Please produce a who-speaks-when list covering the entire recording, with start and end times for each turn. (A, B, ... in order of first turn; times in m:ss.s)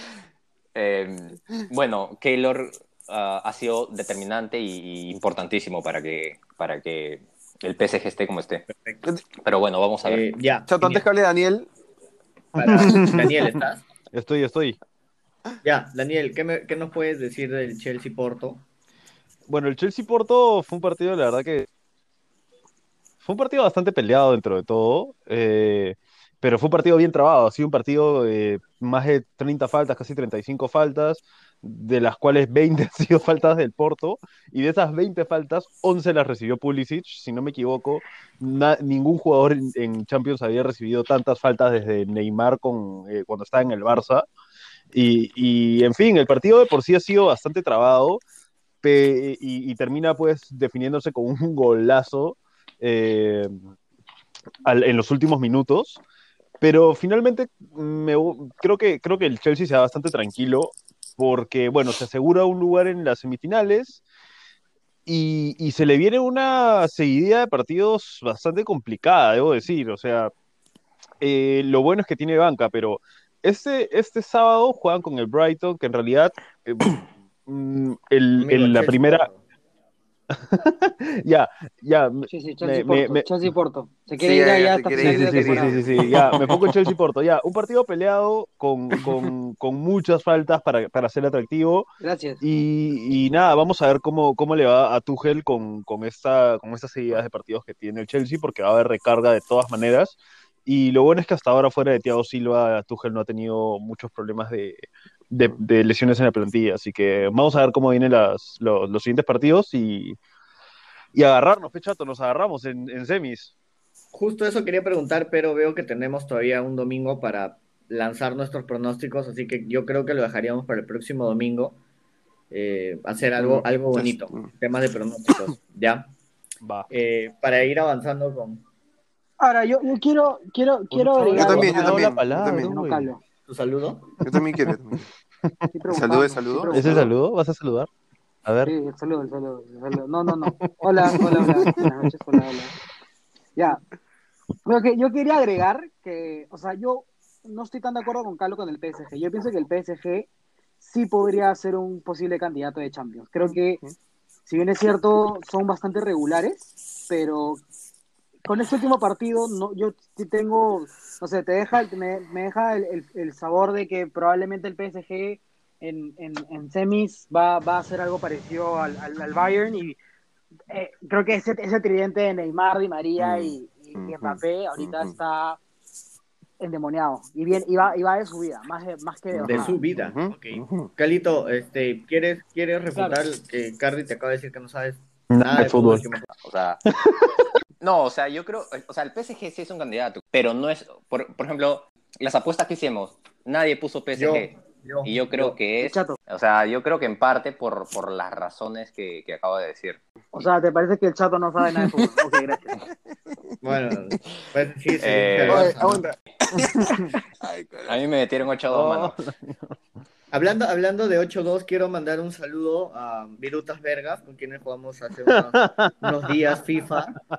0:00.8-0:08.7 A
0:08.7-0:09.0 B
0:09.4-0:10.2 A
0:10.0-0:11.0 B
0:10.7-0:11.7 C
0:12.6-0:13.4 D
0:12.6-0:13.8 B
0:14.1-0:14.8 D
0:15.6-0:18.6 B
0:19.5-0:21.7 D
0:23.2-0:44.2 D
0:44.9-0:48.2 D
0:48.8-0:53.6 D
0:54.6-0:56.0 D
0:56.6-1:04.0 D
1:05.1-1:10.3 D
1:11.2-1:19.3 D
1:18.4-1:19.4 B
1:20.3-1:23.3 D
1:22.3-1:26.3 E
1:24.2-1:26.7 C
1:25.0-1:31.9 D
1:29.0-1:29.3 C
1:32.0-1:32.4 E
1:32.4-1:50.2 D
1:51.1-1:53.5 D
1:54.1-2:01.8 B
2:02.5-2:06.1 B
2:03.4-2:04.5 C
2:06.6-2:06.9 D
2:06.9-2:08.6 B
2:09.4-2:13.2 E
2:10.9-2:13.1 D
2:11.2-2:12.7 C
2:13.5-2:14.2 B
2:14.2-2:15.1 C
2:14.3-2:14.7 D
2:15.4-2:15.8 D
2:15.8-2:17.1 E
2:15.9-2:17.1 C
2:16.7-2:17.9 D
2:18.4-2:18.7 D
2:18.6-2:22.7 E
2:20.3-2:21.9 D
2:23.6-2:23.8 E
2:24.7-2:30.3 E
2:30.8-2:33.8 E
2:34.5-2:37.6 E
2:38.4-2:50.0 E
2:50.7-2:55.6 E
2:53.2-2:55.2 C
2:56.6-2:59.8 E
2:59.3-3:00.9 C
2:59.4-3:06.3 B
3:03.0-3:03.2 E
3:05.3-3:06.1 D
3:06.4-3:06.8 A
3:06.9-3:07.4 D
3:07.8-3:20.0 A
3:14.2-3:15.6 B
3:15.8-3:16.2 E
3:20.3-3:22.8 E
3:21.8-3:22.2 C
3:22.8-3:23.6 C
3:23.6-3:26.1 B
3:24.1-3:24.4 C
3:25.0-3:25.8 A
3:25.5-3:28.0 C
3:27.9-3:29.2 A
3:28.7-3:29.8 D
3:30.3-3:37.2 B
3:35.3-3:35.9 D